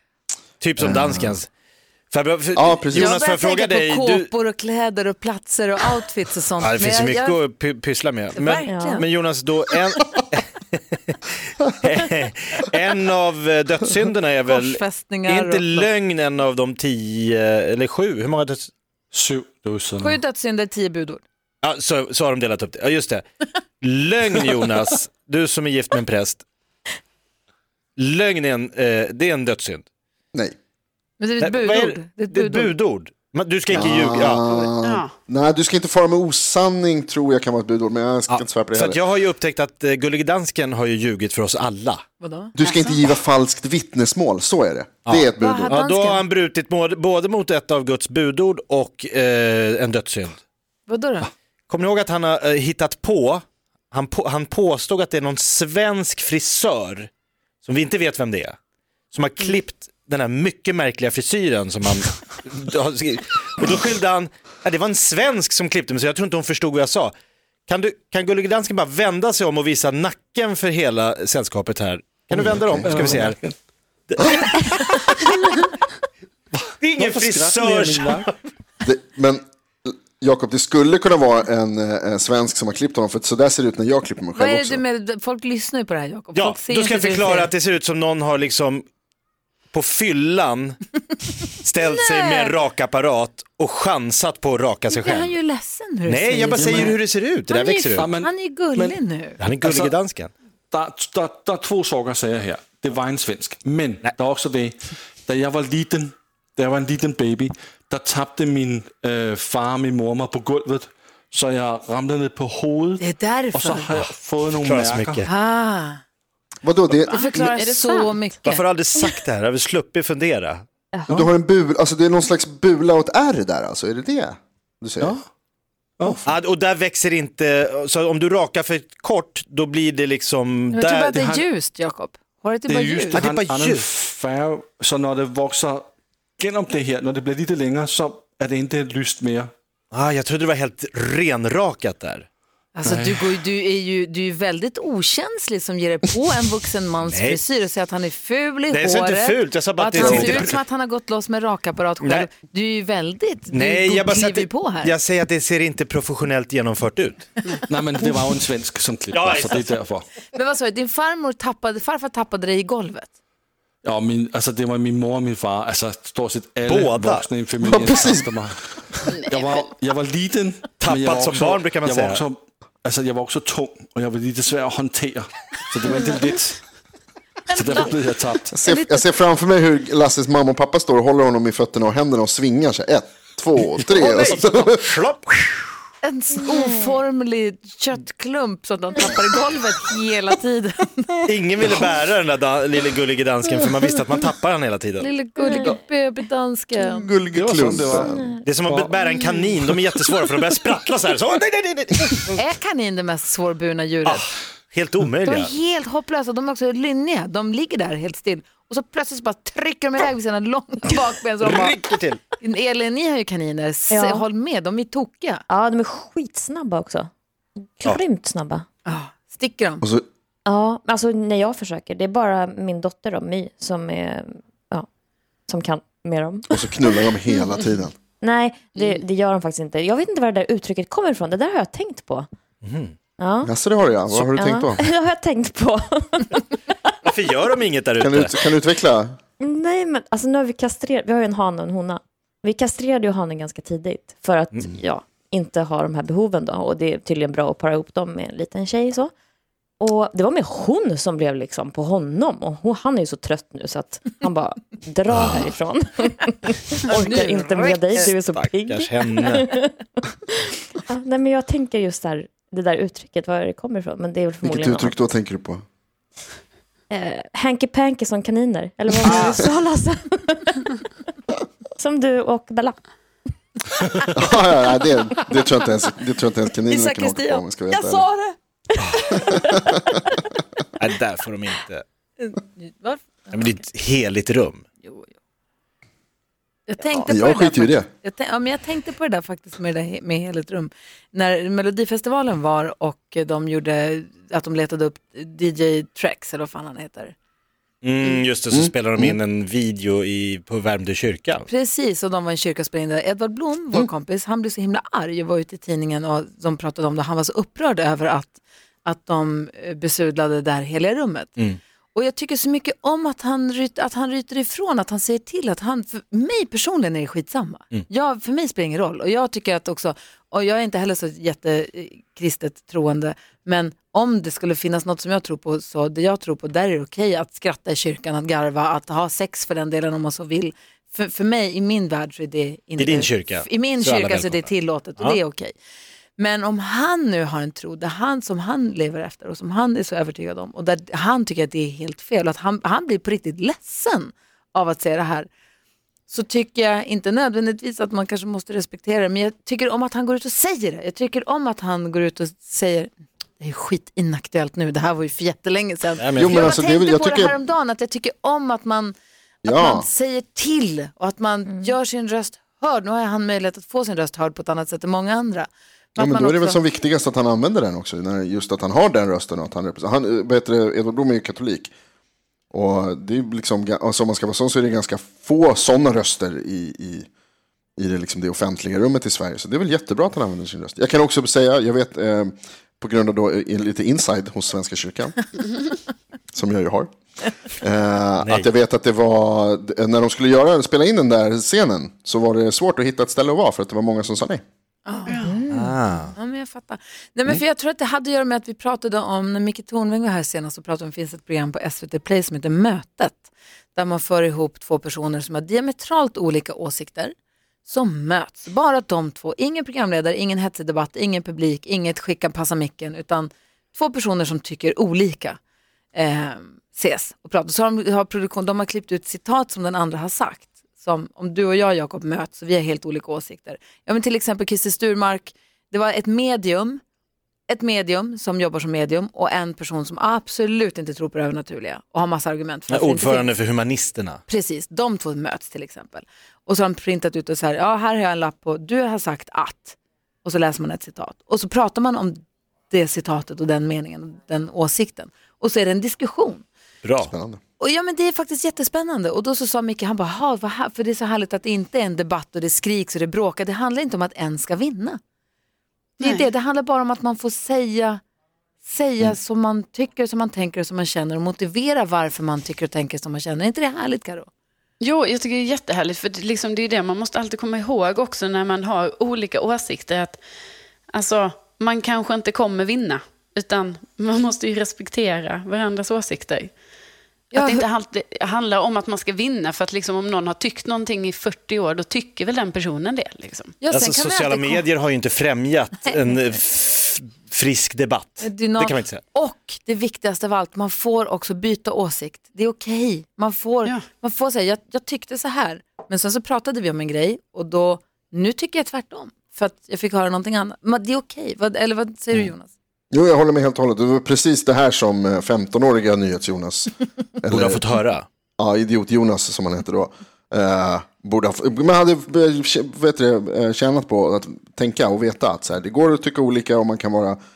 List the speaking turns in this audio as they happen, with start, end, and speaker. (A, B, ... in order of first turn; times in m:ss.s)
0:00.6-0:01.5 A
0:00.8-0:01.4 B
0:02.1-0:04.3 A
0:02.5-0:03.2 B
0:02.9-0:07.4 C
0:06.6-0:18.7 A
0:08.3-0:09.1 C
0:08.6-0:09.0 D
0:14.5-0:15.9 C
0:19.1-0:20.2 E
0:20.0-0:21.2 C
0:21.6-0:23.2 A
0:23.8-0:26.4 A
0:28.0-0:29.8 A
0:31.2-0:32.7 C
0:31.4-0:34.4 A
0:33.7-0:39.0 B
0:34.6-0:35.1 F
0:38.3-0:42.0 A
0:42.2-0:43.0 C
0:42.6-0:45.8 B
0:45.0-0:50.4 A
0:45.3-0:46.2 C
0:50.9-0:51.3 C
0:51.7-0:57.1 A
0:57.6-0:58.6 A
0:59.1-1:07.1 A
1:07.7-1:13.4 A
1:12.3-1:13.5 E
1:12.8-1:13.2 B
1:14.1-1:15.4 A
1:16.5-1:18.3 E
1:16.8-1:18.3 A
1:18.8-1:24.8 B
1:24.3-1:27.5 C
1:26.3-1:28.8 A
1:29.7-1:30.8 A
1:31.6-1:35.3 A
1:31.8-1:32.5 C
1:34.9-1:39.4 C
1:36.1-1:38.0 A
1:36.6-1:37.0 E
1:37.9-1:39.0 E
1:39.4-1:40.3 A
1:39.6-1:39.9 E
1:40.7-1:55.2 E
1:53.0-1:53.9 C
1:54.6-1:55.3 A
1:55.2-1:56.0 C
1:56.6-1:57.4 B
1:57.1-1:58.6 C
1:57.1-1:58.2 F
1:58.4-2:00.6 A
2:01.1-2:05.2 B
2:06.0-2:06.2 E
2:06.2-2:11.1 A
2:10.7-2:13.2 C
2:11.1-2:11.4 E
2:12.7-2:19.5 E
2:13.1-2:13.8 A
2:19.9-2:22.2 A
2:22.7-2:34.9 C
2:22.8-2:23.3 E
2:27.0-2:27.4 A
2:28.7-2:30.5 A
2:30.0-2:30.6 E
2:32.0-2:32.3 A
2:33.5-2:37.3 A
2:37.6-2:40.0 E
2:39.1-2:39.6 A
2:40.3-2:43.1 C
2:43.8-2:56.6 E
2:46.6-2:47.2 A
2:47.6-2:48.3 B
2:50.8-2:52.2 A
2:57.5-2:58.5 E
2:57.5-2:57.9 C
2:58.5-3:04.8 B
2:58.6-2:59.0 C
3:03.8-3:05.7 A
3:06.0-3:11.2 C
3:11.3-3:15.1 A
3:15.0-3:17.1 C
3:15.4-3:15.8 D
3:16.8-3:18.3 B
3:17.3-3:18.1 E
3:18.0-3:18.4 D
3:18.4-3:22.4 A
3:18.6-3:19.0 E
3:22.3-3:24.2 C
3:24.0-3:25.5 A
3:25.2-3:31.8 C
3:31.4-3:32.2 A
3:32.4-3:35.4 C
3:33.9-3:34.2 D
3:35.5-3:37.1 D
3:37.8-3:38.6 D
3:38.8-3:39.8 C
3:40.4-3:44.8 D
3:45.5-3:47.3 D
3:46.5-3:48.0 B
3:48.2-3:52.3 D
3:52.6-3:52.9 A
3:53.2-3:53.5 D
3:53.4-3:54.9 B
3:54.1-3:56.9 D
3:57.0-3:58.4 A
3:58.0-3:59.2 B
3:59.4-4:09.1 D
4:09.8-4:19.7 D
4:17.0-4:17.8 C
4:17.9-4:19.5 A
4:20.3-4:25.0 D
4:24.4-4:25.6 B
4:26.9-4:30.8 D
4:29.1-4:29.3 A
4:31.8-4:32.8 D
4:34.1-4:38.1 B
4:36.7-4:38.4 C
4:39.0-4:39.7 D
4:40.8-4:41.8 A
4:42.2-4:43.4 C
4:43.3-4:44.6 A
4:44.8-4:45.1 C
4:46.7-4:57.1 C
4:47.0-4:47.9 B
4:57.8-5:01.4 A
4:58.5-4:59.2 B
5:01.5-5:11.4 C
5:11.9-5:35.5 C
5:32.8-5:35.2 A
5:36.2-5:45.3 C
5:46.1-5:58.9 C
5:56.0-5:56.6 A
5:56.1-5:57.4 B
5:59.4-5:59.9 B
5:59.5-6:06.6 C
6:06.0-6:11.7 B
6:12.5-6:17.1 B
6:17.8-6:25.3 B
6:26.3-6:26.9 B
6:27.5-6:34.4 B
6:28.2-6:28.5 A
6:34.8-6:35.4 C
6:35.1-6:35.4 F
6:35.2-6:35.7 D
6:35.5-6:36.1 A
6:36.1-6:47.1 C
6:47.6-6:55.4 C
6:55.9-7:06.8 C
7:07.5-7:13.4 C
7:12.7-7:14.2 A
7:14.3-7:22.2 C
7:22.7-7:26.4 C
7:26.8-7:27.1 A
7:27.0-7:27.4 B
7:27.6-7:35.0 C
7:36.0-7:38.0 C
7:36.0-7:36.3 F
7:38.6-7:44.3 C
7:44.8-7:50.2 F
7:50.9-7:56.5 F
7:57.3-7:57.6 C
7:57.3-8:03.6 F
8:03.6-8:04.6 C
8:03.7-8:09.0 A
8:08.2-8:22.5 C
8:22.9-8:27.6 B
8:27.3-8:28.0 A
8:28.4-8:37.2 B